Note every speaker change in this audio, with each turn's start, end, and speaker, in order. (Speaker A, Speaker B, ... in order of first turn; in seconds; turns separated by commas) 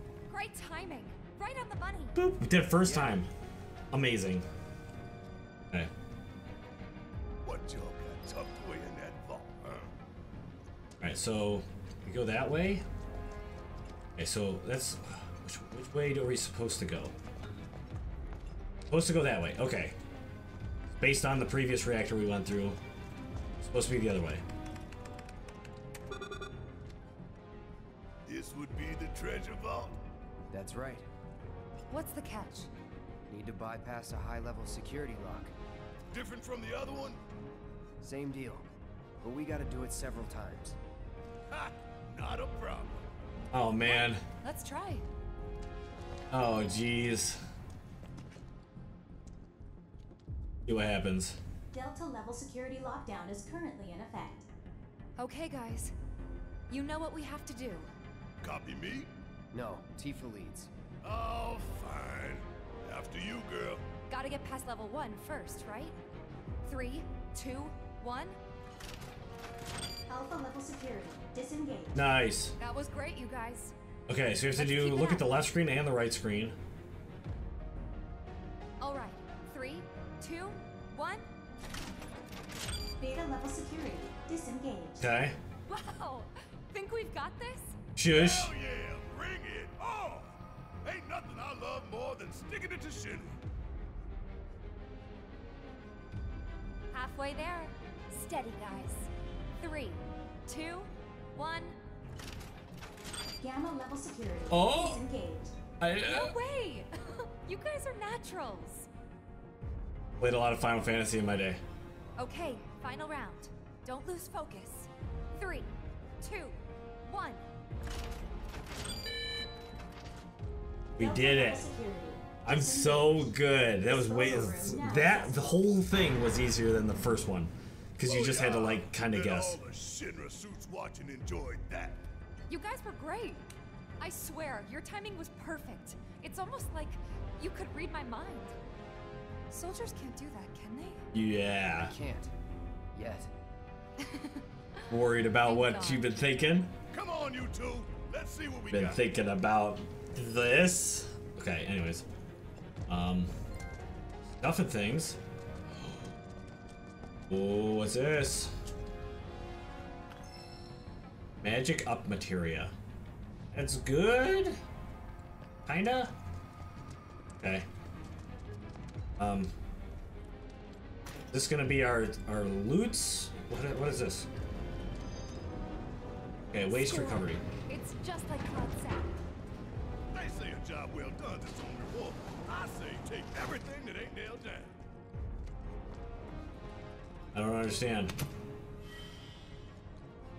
Speaker A: 0.3-2.2, Speaker B: 2.1-3.3, Speaker C: 2.9-3.2, Speaker B: 3.9-4.5, Speaker C: 7.4-9.9, Speaker B: 11.0-12.8, Speaker B: 14.2-17.1, Speaker B: 18.9-19.9, Speaker B: 20.9-22.8, Speaker B: 23.6-24.4, Speaker C: 28.3-30.0, Speaker D: 30.5-31.1, Speaker A: 31.9-32.7, Speaker D: 33.3-35.5, Speaker C: 36.1-37.2, Speaker D: 38.0-38.7, Speaker D: 39.2-40.8, Speaker C: 41.5-43.0, Speaker B: 43.5-44.2, Speaker A: 43.8-45.0, Speaker B: 46.3-47.4, Speaker B: 50.7-51.4, Speaker E: 51.7-54.5, Speaker A: 55.2-55.9, Speaker A: 56.7-57.9, Speaker C: 58.4-59.1, Speaker D: 59.5-60.7, Speaker C: 61.0-63.8, Speaker A: 64.1-66.0, Speaker A: 66.6-68.4, Speaker E: 70.1-72.0, Speaker B: 71.9-72.6, Speaker A: 72.6-73.7, Speaker B: 74.1-76.6, Speaker A: 74.5-75.3, Speaker A: 78.8-81.2, Speaker E: 83.0-85.1, Speaker B: 85.0-85.4, Speaker A: 85.7-87.8, Speaker B: 88.0-88.5, Speaker C: 88.1-93.4, Speaker A: 96.9-101.8, Speaker E: 103.4-105.5, Speaker B: 104.5-105.0, Speaker B: 105.8-106.3, Speaker A: 106.0-108.9, Speaker B: 110.2-111.6, Speaker A: 112.2-117.4, Speaker B: 121.0-121.7, Speaker E: 121.0-125.7, Speaker B: 122.4-129.6, Speaker C: 128.0-132.0, Speaker A: 132.5-133.5, Speaker A: 134.0-138.6, Speaker A: 139.5-141.1, Speaker B: 141.1-141.9, Speaker D: 141.8-142.3, Speaker D: 142.9-143.3, Speaker A: 144.0-144.4, Speaker B: 144.9-146.7, Speaker A: 145.3-146.1, Speaker C: 146.9-149.0, Speaker B: 148.7-152.1, Speaker B: 152.9-153.3, Speaker B: 154.3-155.2, Speaker B: 157.3-158.5, Speaker B: 161.4-162.7, Speaker B: 163.5-164.6, Speaker B: 165.7-166.1, Speaker B: 167.4-167.7, Speaker B: 169.2-169.5, Speaker B: 171.3-174.3, Speaker B: 176.5-177.4, Speaker A: 176.6-179.1, Speaker C: 180.1-184.8, Speaker B: 187.3-188.1